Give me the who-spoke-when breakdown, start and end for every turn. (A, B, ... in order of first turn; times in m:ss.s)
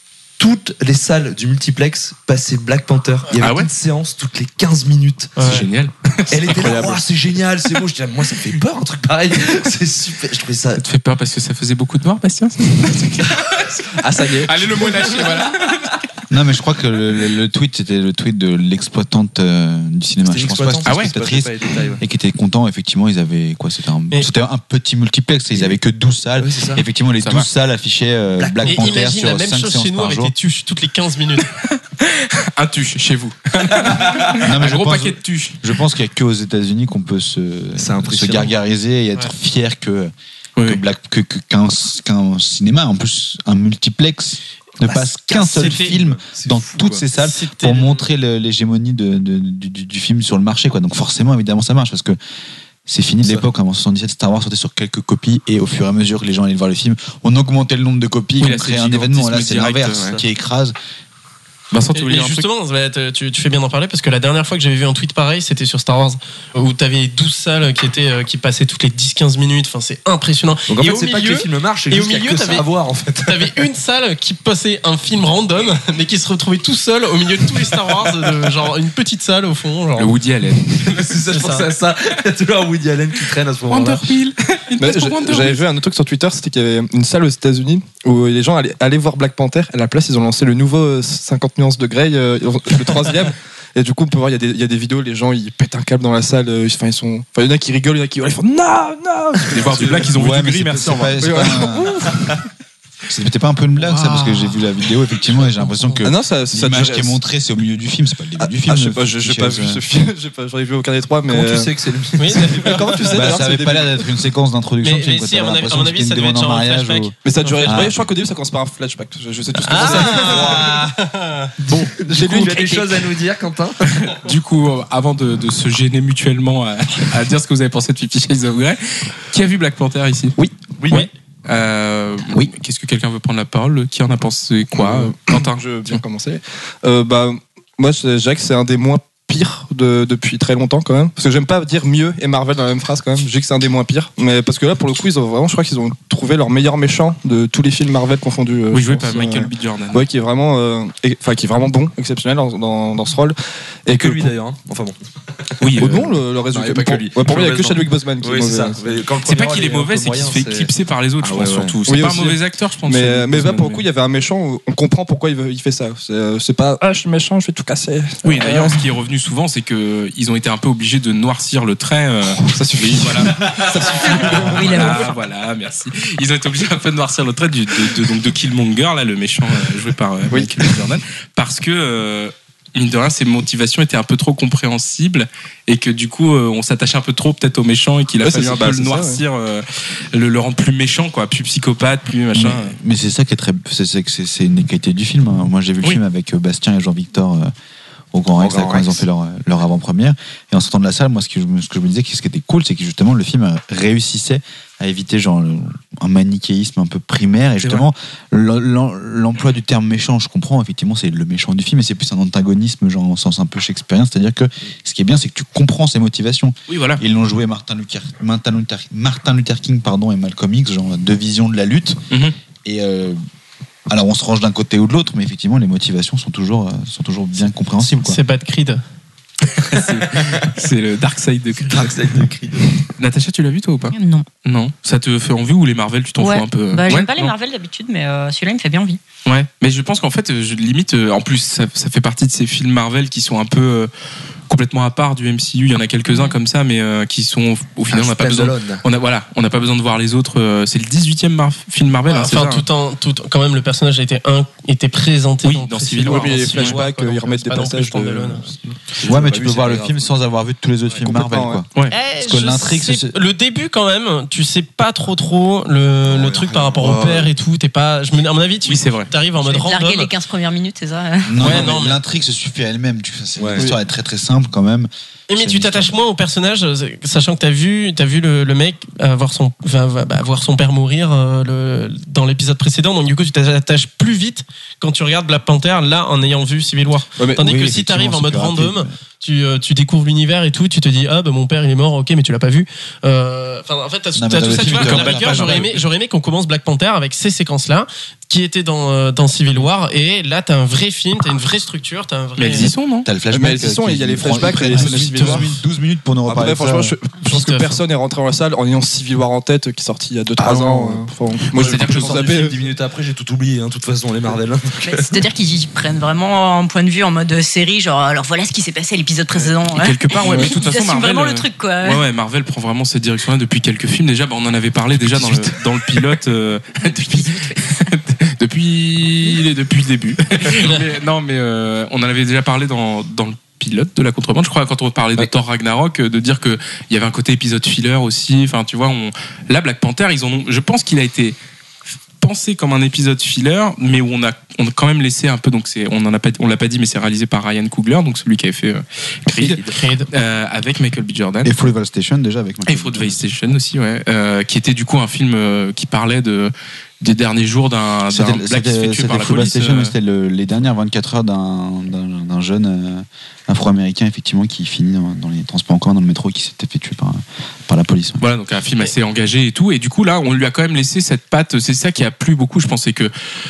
0:00.4-0:05.5 A
0:03.4-0:03.7 B
0:05.4-0:05.6 C
0:05.4-0:07.0 B
0:06.3-0:10.8 A
0:10.8-0:16.0 B
0:14.0-0:14.6 D
0:16.3-0:30.3 E
0:20.2-0:22.0 A
0:20.8-0:21.2 B
0:26.4-0:26.8 A
0:27.2-0:27.5 B
0:28.4-0:29.0 A
0:28.6-0:31.5 C
0:31.5-0:35.6 B
0:34.3-0:52.2 E
0:37.8-0:38.5 A
0:40.6-0:40.8 B
0:44.8-0:47.0 A
0:45.6-0:45.9 C
0:47.2-0:48.1 C
0:52.9-1:00.7 E
0:58.4-1:00.0 B
1:00.0-1:00.2 A
1:01.7-1:02.4 B
1:01.9-1:12.6 C
1:10.7-1:13.5 A
1:13.2-1:20.1 C
1:20.0-1:21.0 B
1:20.8-1:24.0 A
1:21.2-1:21.7 C
1:23.7-1:25.6 B
1:24.8-1:40.1 D
1:39.5-1:41.6 B
1:40.0-1:42.3 E
1:41.2-1:42.3 D
1:43.1-1:49.8 E
1:44.0-1:44.5 C
1:46.0-1:47.2 D
1:48.4-1:51.7 D
1:51.3-1:53.6 A
1:52.2-1:53.1 C
1:52.5-1:53.9 D
1:53.1-1:58.1 E
1:54.8-1:57.9 C
1:57.2-2:00.7 D
1:59.6-2:01.5 C
1:59.7-2:00.9 A
2:01.7-2:02.8 B
2:02.0-2:04.0 A
2:02.1-2:02.6 D
2:04.0-2:10.4 B
2:10.8-2:11.1 A
2:10.9-2:16.0 B
2:14.7-2:34.3 D
2:28.7-2:30.0 B
2:33.9-2:35.9 A
2:35.6-2:36.2 B
2:35.8-2:39.0 D
2:36.5-2:41.8 A
2:39.2-2:43.8 B
2:41.9-2:48.8 D
2:48.2-3:12.8 B
2:52.3-2:55.1 D
2:54.0-2:55.1 F
3:00.3-3:00.8 D
3:08.2-3:09.2 D
3:12.3-3:17.5 E
3:18.1-3:42.0 E
3:18.4-3:19.0 A
3:36.7-3:37.0 B
3:42.6-3:43.2 E
3:43.9-3:48.2 E
3:47.8-3:48.8 C
3:49.5-3:52.2 B
3:49.8-3:50.5 A
3:51.6-3:52.8 A
3:53.0-3:57.3 B
3:53.9-3:54.3 F
3:56.2-3:59.0 F
3:59.2-4:03.9 B
4:04.5-4:12.6 B
4:06.1-4:06.4 F
4:07.9-4:08.8 A
4:12.1-4:18.5 C
4:15.4-4:16.8 B
4:16.0-4:18.8 D
4:18.9-4:20.1 A
4:19.0-4:21.6 E
4:21.0-4:21.6 D
4:21.9-4:30.1 C
4:22.2-4:23.2 E
4:26.0-4:27.3 A
4:28.7-4:29.1 B
4:29.4-4:31.6 F
4:31.2-4:36.0 E
4:31.4-4:32.0 C
4:33.4-4:33.7 A
4:35.3-5:02.7 C
4:47.2-4:47.4 D
4:47.4-4:48.9 E
4:54.1-4:55.8 E
4:54.6-4:55.6 B
5:02.4-5:03.1 B
5:03.0-5:06.9 E
5:03.3-5:05.6 D
5:06.3-5:12.6 D
5:07.2-5:07.7 C
5:10.4-5:10.7 E
5:11.5-5:12.5 B
5:11.5-5:15.2 A
5:14.8-5:22.0 F
5:19.6-5:41.4 B
5:25.1-5:25.4 A
5:26.8-5:27.6 F
5:42.2-5:51.6 B
5:49.3-5:49.8 A
5:49.7-5:50.1 C
5:51.4-5:53.2 E
5:52.6-5:59.9 B
5:58.1-6:08.2 E
6:08.2-6:13.1 B